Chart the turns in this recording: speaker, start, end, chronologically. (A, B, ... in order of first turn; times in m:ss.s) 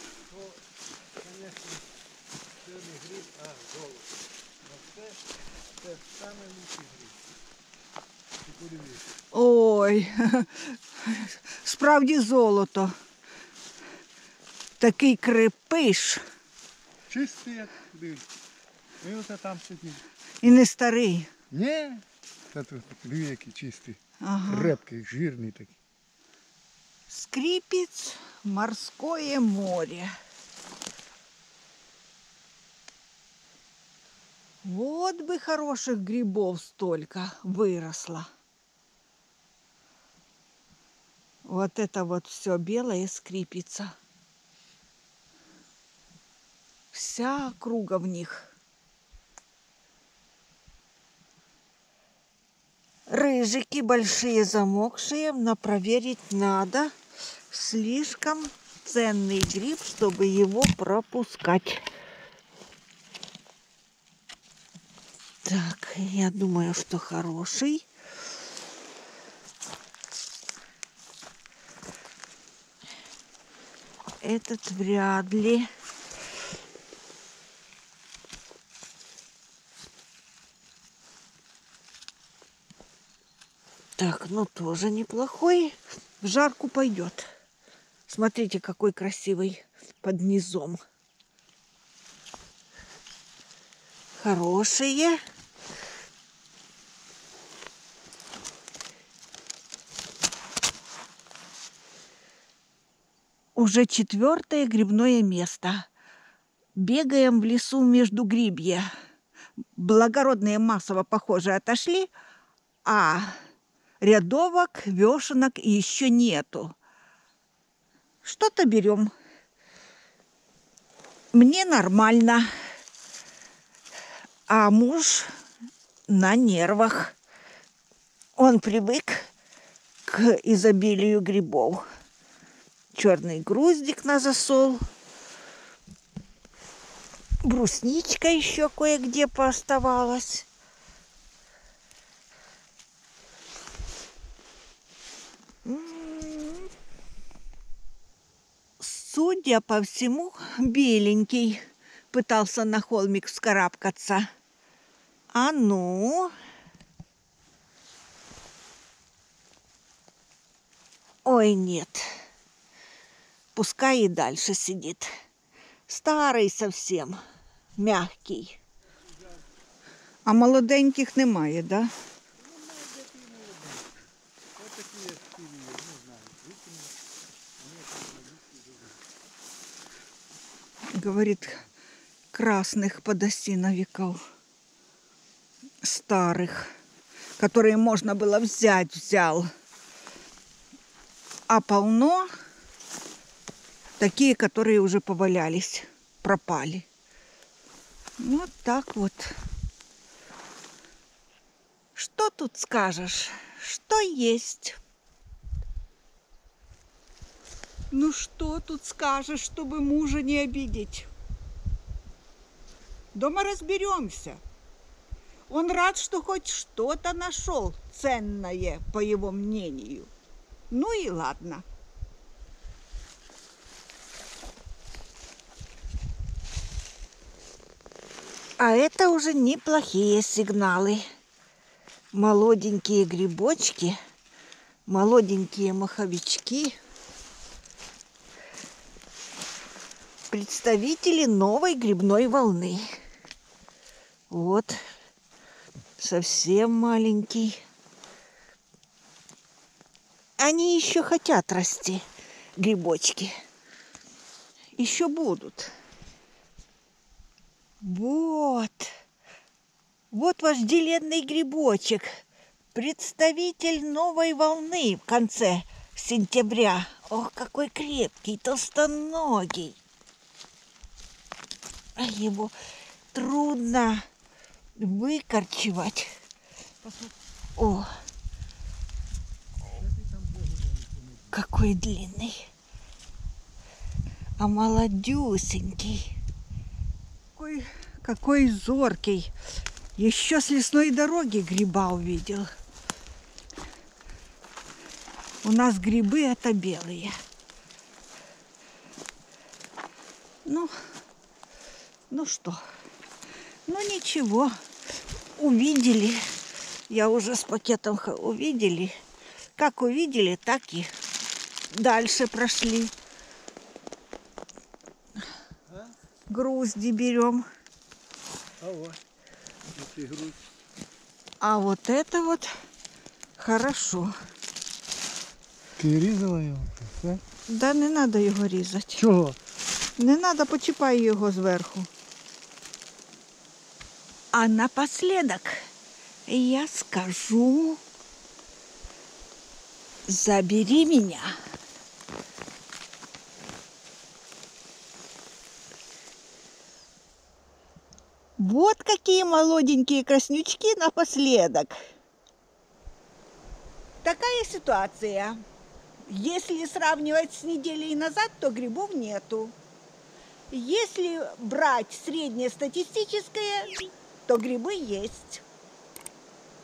0:01.2-0:01.8 A
0:02.6-0:04.0 A
0:04.7-0:05.2 A
0:05.8-0:07.1 A
0:08.5-0:09.0 A
0:09.3-0:12.9 B
0:14.8-0:16.2 B
0:17.1-0:18.3 A
0:19.0-0:20.0 A
0:20.4-0:21.3 B
0:21.5-0:24.0 A
0:24.2-0:24.8 B
0:24.6-0:25.8 A
0:27.1-0:30.1 B
0:34.6-0:38.3 B
0:41.4-0:44.0 B
0:46.9-0:48.5 B
0:53.1-0:56.9 B
0:57.5-1:01.8 B
1:05.4-1:07.9 B
1:14.2-1:15.7 B
1:24.0-1:27.3 B
1:28.1-1:30.8 B
1:34.2-1:35.2 B
1:43.6-1:45.9 B
1:46.8-1:48.9 B
1:49.8-1:52.1 B
1:52.8-1:53.4 B
1:54.0-1:56.8 B
1:58.2-1:59.1 B
2:01.3-2:02.5 B
2:04.5-2:05.3 B
2:06.1-2:07.2 B
2:08.4-2:09.3 B
2:10.0-2:11.8 B
2:12.9-2:14.8 B
2:17.4-2:20.5 B
2:25.6-2:26.7 B
2:28.8-2:31.6 B
2:32.1-2:34.3 B
2:35.3-2:36.3 B
2:41.3-2:42.0 B
2:43.6-2:45.1 B
2:45.9-2:47.2 B
2:47.8-2:48.6 B
2:50.3-2:51.9 B
2:52.7-2:54.0 A
2:54.6-2:56.9 A
2:57.6-2:58.9 A
3:00.9-3:01.6 B
3:02.3-3:04.2 B
3:05.8-3:06.7 B
3:07.4-3:09.5 B
3:11.5-3:12.3 B
3:14.0-3:16.8 B
3:18.2-3:19.4 B
3:22.0-3:24.8 B
3:27.9-3:31.1 B
3:33.1-3:34.4 B
3:35.5-3:40.1 B
3:40.7-3:41.6 B
3:48.6-3:51.0 B
3:52.1-3:54.0 B
3:54.9-3:56.8 B
4:00.3-4:02.9 B
4:04.3-4:04.8 B
4:06.0-4:07.6 B
4:10.4-4:12.0 B
4:12.6-4:13.4 B
4:14.8-4:15.7 B
4:17.8-4:18.9 B
4:20.1-4:22.2 B
4:22.7-4:29.8 B
4:32.0-4:32.6 B
4:33.1-4:34.0 B
4:34.8-4:36.1 B
4:37.6-4:37.9 B
4:40.1-4:40.9 A
4:41.3-4:42.5 B
4:44.4-4:46.1 B
4:47.4-4:49.3 B
4:50.0-4:52.5 B
4:55.4-4:57.1 B
5:00.4-5:00.7 B
5:02.1-5:02.6 B
5:03.7-5:04.5 B
5:05.4-5:06.2 B
5:06.9-5:08.9 B
5:09.6-5:10.9 B
5:11.7-5:12.9 B
5:16.3-5:17.5 B
5:18.6-5:19.0 A
5:19.8-5:20.4 A
5:21.4-5:22.5 B
5:23.4-5:24.1 B
5:25.8-5:27.2 A
5:27.5-5:29.1 B
5:29.1-5:29.4 A
5:30.0-5:31.9 B
5:34.3-5:35.6 B
5:36.3-5:37.8 B
5:40.1-5:41.3 B
5:48.4-5:51.8 B
5:54.0-5:55.4 B
5:56.1-5:59.5 B
6:00.5-6:03.7 B
6:04.3-6:05.4 B